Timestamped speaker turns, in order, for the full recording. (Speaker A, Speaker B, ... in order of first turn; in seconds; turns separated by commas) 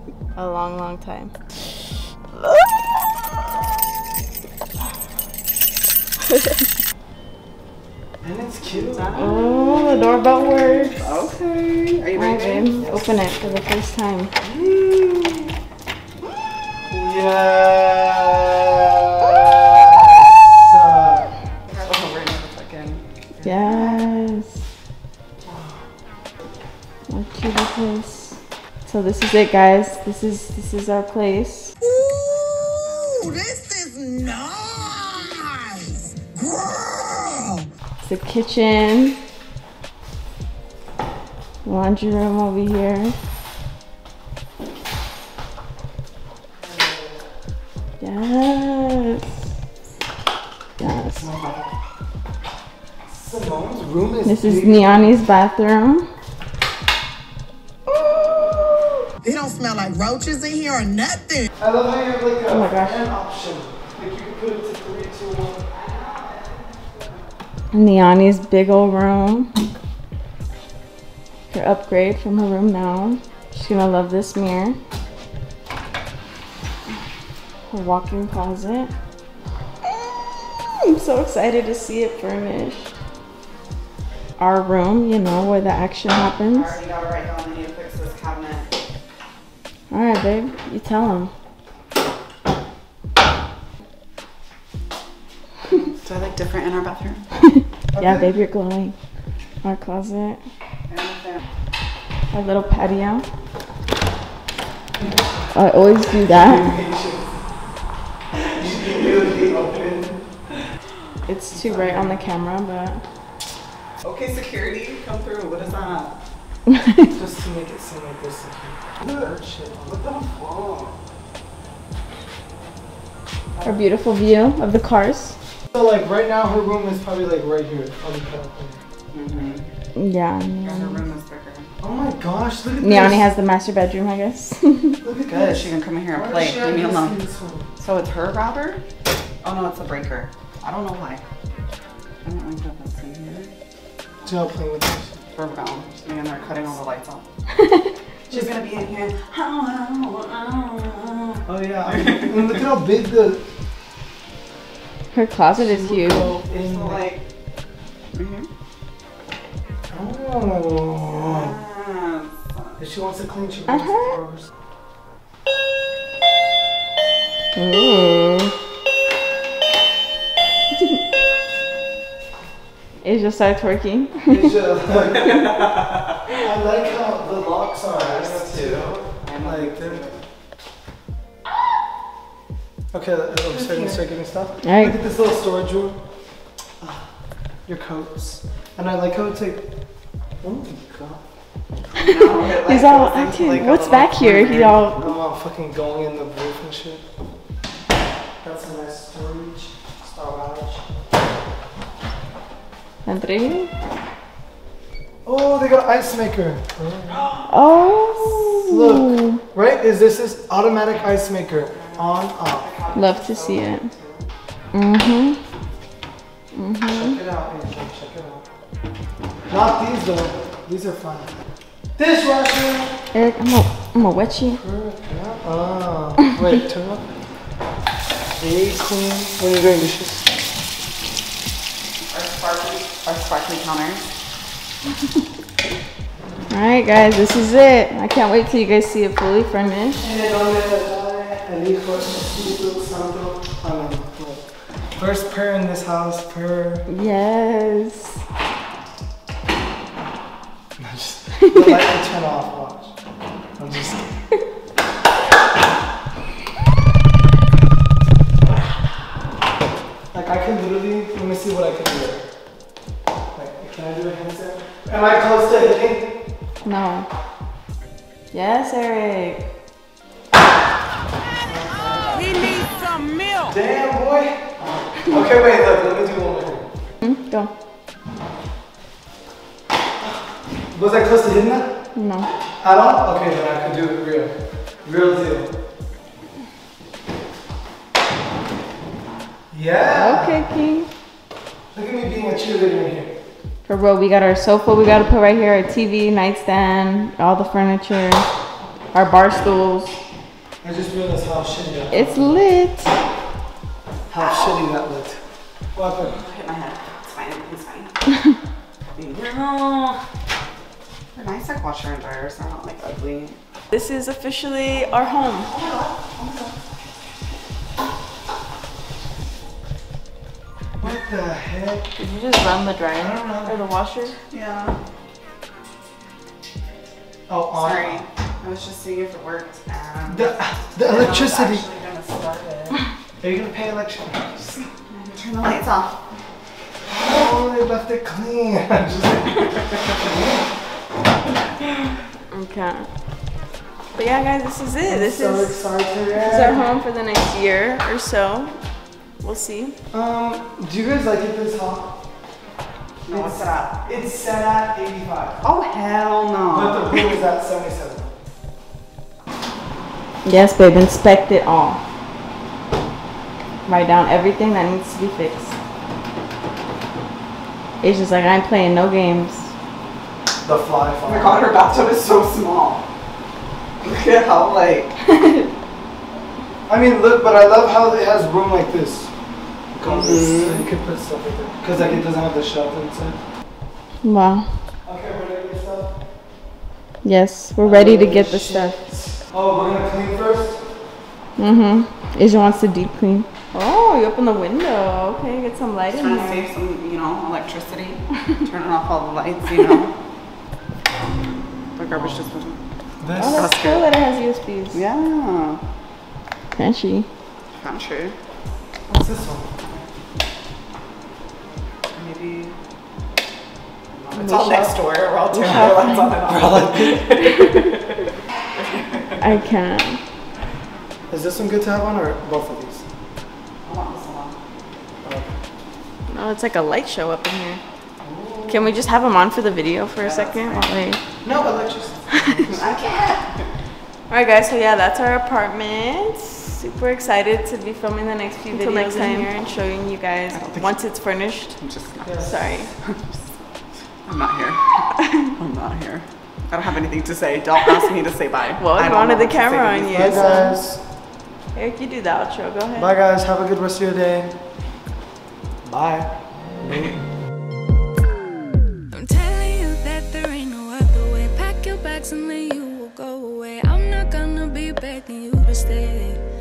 Speaker A: 0.3-1.3, Speaker A: 2.4-3.0, Speaker A: 6.3-6.6, Speaker B: 8.2-9.3, Speaker C: 8.6-13.3, Speaker A: 9.2-11.4, Speaker A: 12.2-14.3, Speaker B: 12.8-13.7, Speaker C: 14.4-15.4, Speaker B: 16.9-21.3, Speaker C: 21.7-24.0, Speaker A: 23.4-24.6, Speaker A: 27.1-31.7, Speaker D: 31.8-37.7, Speaker A: 38.0-39.2, Speaker A: 41.6-43.1, Speaker B: 46.6-47.2, Speaker A: 48.0-49.3, Speaker A: 50.8-51.2, Speaker B: 51.2-51.7, Speaker B: 53.1-55.2, Speaker A: 54.2-56.1, Speaker A: 57.9-58.9, Speaker D: 59.2-61.5, Speaker B: 61.6-65.7, Speaker A: 62.5-63.1, Speaker C: 65.7-67.3, Speaker A: 67.7-69.5, Speaker A: 71.5-74.8, Speaker A: 77.7-78.9, Speaker A: 79.9-83.0, Speaker A: 84.4-86.8, Speaker C: 86.5-88.7, Speaker A: 89.9-91.3, Speaker C: 95.7-97.2, Speaker A: 97.5-99.0, Speaker B: 97.9-98.4, Speaker A: 99.6-100.4, Speaker C: 100.9-101.4, Speaker A: 102.3-103.3, Speaker B: 105.0-107.4, Speaker A: 105.5-106.7, Speaker B: 108.3-110.3, Speaker C: 108.7-109.6, Speaker A: 111.3-113.0, Speaker B: 111.5-112.2, Speaker C: 114.0-116.1, Speaker B: 117.1-119.8, Speaker C: 119.8-121.0, Speaker A: 123.6-125.4, Speaker B: 125.7-128.8, Speaker C: 129.1-129.7, Speaker A: 130.0-131.0, Speaker C: 130.6-131.7, Speaker B: 131.8-133.3, Speaker A: 132.8-135.0, Speaker B: 135.0-137.7, Speaker C: 135.3-137.2, Speaker C: 137.8-138.8, Speaker C: 139.4-141.2, Speaker C: 142.2-143.5, Speaker B: 144.2-145.2, Speaker C: 145.3-147.2, Speaker A: 147.6-147.9, Speaker C: 148.3-152.7, Speaker B: 151.5-153.4, Speaker A: 155.1-156.4, Speaker B: 155.5-157.1, Speaker C: 156.5-157.2, Speaker C: 158.1-158.5, Speaker B: 159.9-161.6, Speaker C: 161.1-162.8, Speaker B: 162.8-164.5, Speaker A: 163.7-164.2, Speaker A: 167.6-168.5, Speaker A: 173.0-174.5, Speaker B: 174.2-175.7, Speaker C: 175.3-176.1, Speaker B: 176.4-180.1, Speaker C: 177.9-180.2, Speaker B: 182.9-186.0, Speaker C: 183.5-184.1, Speaker A: 184.6-185.0, Speaker B: 187.7-189.7, Speaker B: 190.4-191.2, Speaker C: 191.9-195.0, Speaker A: 192.6-195.1, Speaker B: 194.8-197.1, Speaker B: 198.4-200.8, Speaker A: 203.1-203.7, Speaker B: 205.2-207.3, Speaker C: 207.1-207.6, Speaker A: 207.5-209.4, Speaker B: 208.3-212.7, Speaker C: 211.7-214.3, Speaker A: 212.9-213.9, Speaker A: 214.7-215.4, Speaker A: 216.5-217.2, Speaker B: 216.9-218.5, Speaker B: 219.5-221.3, Speaker B: 222.0-222.9, Speaker A: 223.1-224.6, Speaker B: 224.5-227.1, Speaker B: 228.4-230.4, Speaker C: 232.1-234.1, Speaker A: 236.5-240.0, Speaker B: 240.0-244.4, Speaker B: 245.0-246.9, Speaker A: 246.9-248.2, Speaker B: 250.8-252.9, Speaker B: 253.6-254.2, Speaker B: 260.1-262.2, Speaker B: 263.4-266.2, Speaker A: 266.6-267.1, Speaker A: 268.3-269.5, Speaker B: 271.4-272.6, Speaker B: 273.4-276.7, Speaker A: 277.0-277.5, Speaker B: 280.7-281.8, Speaker A: 281.9-282.3, Speaker B: 282.6-285.5, Speaker B: 289.5-290.5, Speaker A: 289.9-290.9, Speaker B: 291.7-293.2, Speaker A: 293.6-298.3, Speaker A: 298.9-299.9, Speaker B: 300.6-302.4, Speaker A: 301.9-302.9, Speaker B: 304.1-305.2, Speaker C: 304.2-304.7, Speaker B: 305.7-306.2, Speaker C: 306.0-308.0, Speaker C: 309.0-310.1, Speaker C: 311.1-313.4, Speaker A: 313.7-315.5, Speaker C: 315.4-316.6, Speaker B: 320.8-321.9, Speaker A: 322.0-324.2, Speaker B: 322.9-323.6, Speaker C: 324.3-324.8, Speaker B: 327.3-328.1, Speaker C: 327.6-332.8, Speaker B: 330.1-331.7, Speaker B: 333.2-334.7, Speaker C: 334.9-336.0, Speaker B: 336.9-340.5, Speaker A: 342.3-342.9, Speaker A: 343.9-345.6, Speaker B: 344.9-346.7, Speaker A: 346.2-348.6, Speaker A: 349.2-349.8, Speaker B: 349.9-352.0, Speaker C: 353.1-353.8, Speaker B: 353.1-355.4, Speaker C: 355.4-357.2, Speaker B: 356.5-358.1, Speaker A: 360.2-361.8, Speaker A: 363.7-365.6, Speaker A: 367.8-369.5, Speaker B: 370.4-371.5, Speaker C: 371.0-372.8, Speaker C: 373.8-374.9, Speaker B: 376.7-379.1, Speaker B: 379.7-383.2, Speaker C: 379.8-380.7, Speaker A: 384.0-384.5, Speaker B: 384.9-386.0, Speaker A: 387.0-388.8, Speaker B: 387.6-390.7, Speaker A: 391.4-396.5, Speaker C: 395.9-399.9, Speaker C: 401.8-402.6, Speaker B: 403.0-403.4, Speaker A: 403.1-404.8, Speaker C: 403.2-403.9, Speaker C: 404.7-405.6, Speaker A: 406.6-407.1, Speaker C: 407.6-408.2, Speaker B: 408.9-409.5, Speaker C: 409.6-409.9, Speaker C: 411.9-412.6, Speaker C: 413.9-419.2, Speaker A: 414.1-416.1, Speaker B: 416.2-417.0, Speaker A: 419.2-420.0, Speaker B: 421.1-422.9, Speaker C: 423.7-424.4, Speaker B: 425.0-425.3, Speaker A: 426.1-427.6, Speaker C: 428.0-428.8, Speaker A: 428.5-431.0, Speaker C: 430.0-430.8, Speaker B: 431.2-432.6, Speaker C: 431.3-433.4, Speaker A: 432.1-432.4, Speaker A: 434.1-441.6, Speaker C: 438.6-439.2, Speaker C: 440.3-440.8, Speaker C: 441.6-443.4, Speaker B: 442.0-442.5, Speaker A: 442.2-442.7, Speaker C: 444.1-450.4, Speaker A: 448.6-450.6, Speaker B: 449.9-450.8, Speaker A: 451.5-452.9, Speaker B: 452.8-454.4, Speaker B: 455.6-457.0, Speaker E: 458.9-466.2